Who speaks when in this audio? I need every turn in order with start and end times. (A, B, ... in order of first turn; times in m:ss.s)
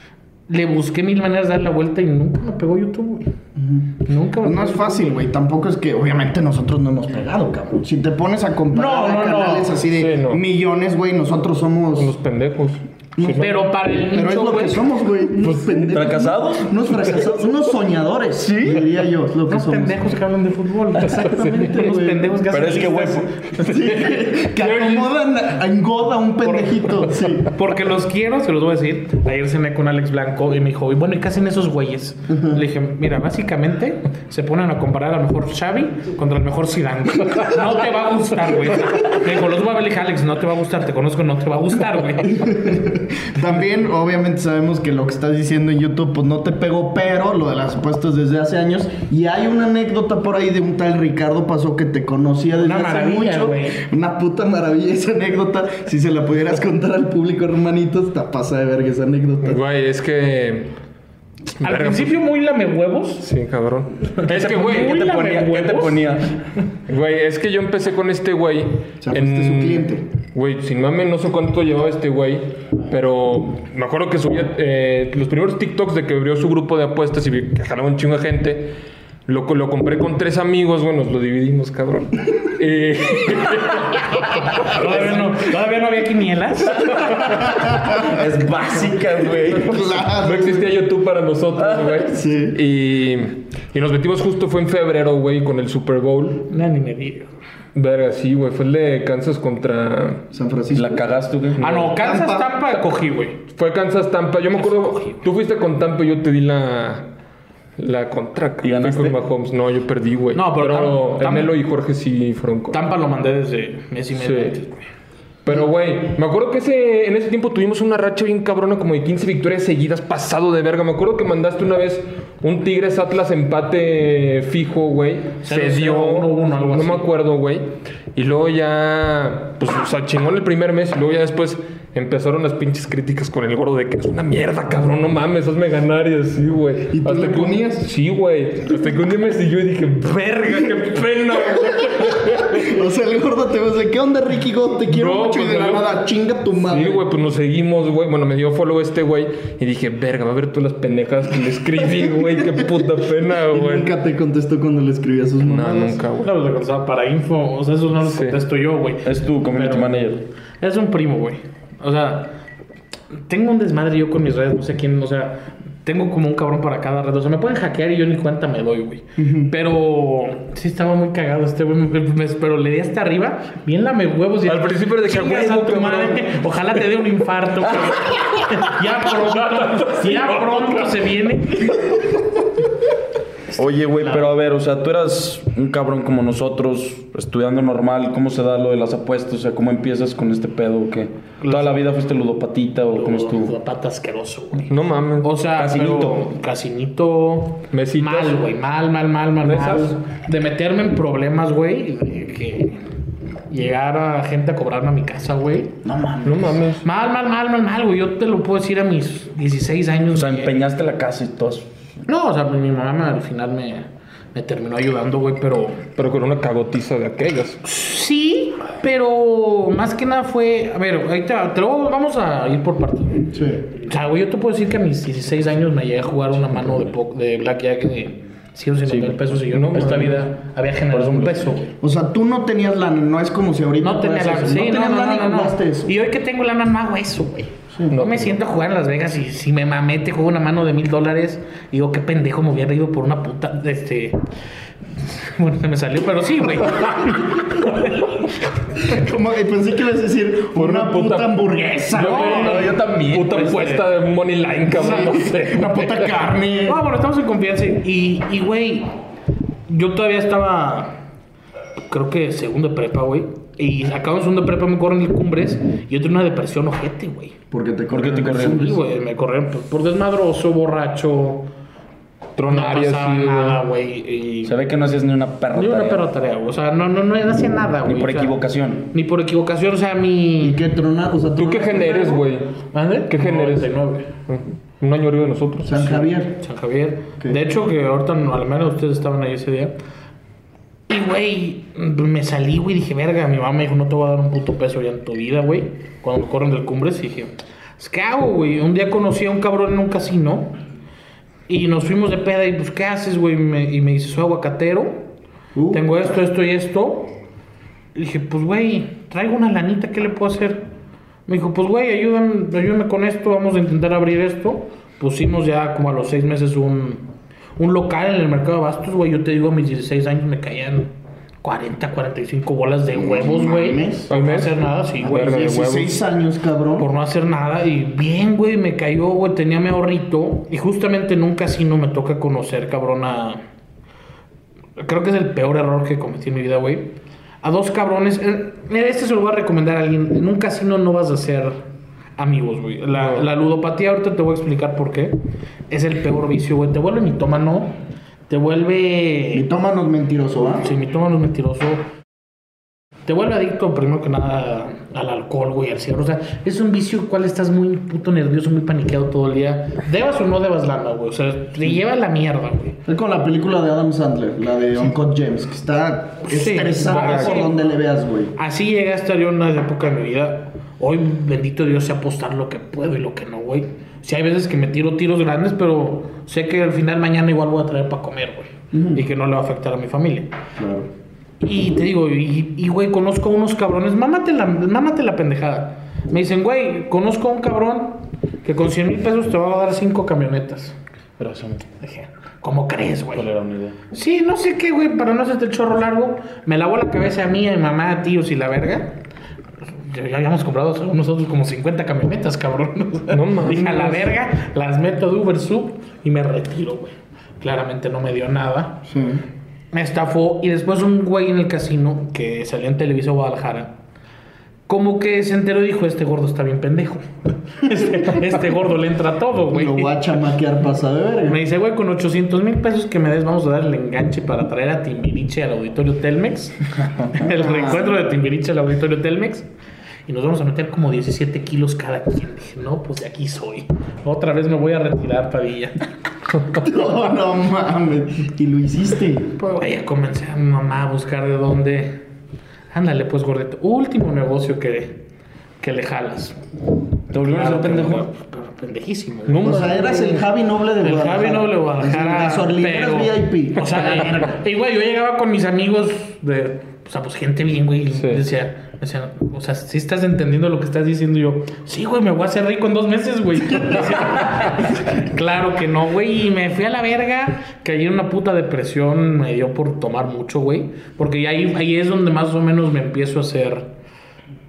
0:00.5-0:03.3 A
0:03.6-0:12.2 B
0:04.0-0:05.2 A
0:08.7-0:09.8 A
0:09.9-0:10.4 C
0:12.0-0:13.6 C
0:13.2-0:20.0 B
0:13.3-0:14.8 A
0:15.4-0:15.9 C
0:15.9-0:17.4 D
0:18.4-0:18.8 D
0:19.5-0:23.3 A
0:21.0-0:22.3 B
0:21.1-0:21.8 C
0:22.5-0:23.5 D
0:23.6-0:27.5 B
0:23.7-0:25.1 C
0:26.4-0:26.7 A
0:27.4-0:42.6 A
0:32.3-0:32.6 B
0:42.2-0:59.6 B
0:52.6-0:53.8 A
0:59.4-1:00.7 C
1:01.5-1:02.2 C
1:01.6-1:03.3 A
1:03.2-1:04.6 C
1:04.1-1:06.1 A
1:04.2-1:06.4 D
1:06.9-1:25.3 C
1:09.0-1:10.0 B
1:24.6-1:27.4 A
1:27.3-1:27.9 B
1:28.0-1:29.9 D
1:29.5-1:30.7 B
1:30.2-1:36.5 C
1:31.6-1:32.0 D
1:32.1-1:32.6 B
1:36.5-1:37.3 A
1:37.8-1:40.2 C
1:40.3-1:41.0 B
1:40.7-1:41.8 D
1:41.6-1:43.4 A
1:41.6-1:42.0 C
1:42.0-1:42.5 B
1:43.5-1:47.1 C
1:44.6-1:45.2 A
1:47.8-1:52.9 C
1:48.6-1:49.2 D
1:50.3-1:51.6 A
1:52.7-1:54.9 A
1:54.2-1:54.6 C
1:55.4-2:22.7 C
2:05.4-2:07.1 A
2:16.9-2:17.9 B
2:21.6-2:27.0 B
2:24.9-2:26.0 C
2:26.6-2:33.9 C
2:31.8-2:32.7 B
2:33.5-2:36.0 B
2:35.4-2:36.3 C
2:36.2-2:42.3 A
2:38.0-2:38.4 C
2:39.0-2:40.2 D
2:43.3-3:01.8 A
2:49.2-2:49.5 B
2:54.4-2:56.3 C
2:59.2-3:00.9 C
3:03.6-3:13.5 D
3:04.0-3:04.3 A
3:11.4-3:11.8 A
3:12.9-3:22.9 A
3:14.6-3:15.3 C
3:15.6-3:16.3 D
3:17.7-3:18.4 C
3:19.4-3:20.0 C
3:23.5-3:25.8 A
3:25.8-3:26.6 B
3:26.2-3:26.8 C
3:26.8-3:30.6 A
3:30.1-3:31.7 D
3:32.1-3:35.9 A
3:36.0-3:37.6 C
3:37.6-3:51.7 A
3:43.2-3:43.6 B
3:48.9-3:50.2 C
3:50.9-3:51.6 D
3:51.8-3:55.9 B
3:53.8-4:04.2 A
3:57.9-3:58.4 C
4:05.0-4:08.4 A
4:08.8-4:12.6 B
4:10.6-4:11.3 C
4:11.9-4:16.2 C
4:12.0-4:12.8 A
4:12.1-4:13.8 D
4:14.7-4:16.8 B
4:16.7-4:18.9 A
4:19.7-4:21.0 A
4:21.9-4:27.4 A
4:27.5-4:28.8 B
4:27.9-4:28.8 D
4:28.4-4:31.5 A
4:32.4-4:33.6 C
4:32.5-4:34.6 A
4:34.4-4:36.1 D
4:35.5-4:38.4 A
4:37.8-4:38.9 D
4:38.9-4:40.6 A
4:40.4-4:42.2 B
4:41.4-4:42.6 C
4:41.9-4:42.2 A
4:42.7-4:44.1 A
4:43.1-4:46.0 C
4:45.6-4:46.4 B
4:45.7-4:49.8 A
4:50.9-5:00.6 A
5:01.5-5:05.1 A
5:05.6-5:05.8 B
5:05.7-5:07.2 A
5:08.0-5:10.6 A
5:11.3-5:17.1 A
5:17.6-5:20.9 A
5:21.4-5:25.6 A
5:22.9-5:24.1 B
5:24.1-5:26.0 C
5:25.0-5:26.9 B
5:26.8-5:33.4 A
5:34.8-5:41.6 A
5:42.2-5:45.2 A
5:42.9-5:43.3 C
5:45.7-5:47.8 A
5:48.3-5:49.5 A
5:49.3-5:50.7 B
5:50.6-5:51.8 A
5:53.1-6:02.8 A
6:02.9-6:08.3 B
6:06.2-6:07.5 A
6:06.9-6:07.5 C
6:08.4-6:20.3 A
6:18.7-6:19.0 B
6:20.6-6:20.9 B
6:21.4-6:30.8 A
6:31.2-6:31.6 D
6:31.6-6:33.3 A
6:33.1-6:33.8 D
6:33.9-6:39.0 A
6:39.9-6:48.8 A
6:43.1-6:44.2 C
6:48.9-6:49.2 B
6:49.7-6:53.8 A
6:54.7-7:00.2 A
6:59.5-7:01.4 B
7:01.3-7:06.6 A
7:07.1-7:09.5 A
7:07.2-7:08.0 B
7:10.1-7:15.8 A
7:16.6-7:19.3 B
7:19.4-7:22.0 A
7:22.7-7:25.0 A
7:25.6-7:26.4 A
7:27.1-7:28.0 D
7:27.2-7:30.2 A
7:29.3-7:30.1 C
7:29.4-7:34.4 B
7:30.8-7:53.7 A
7:38.0-7:38.2 C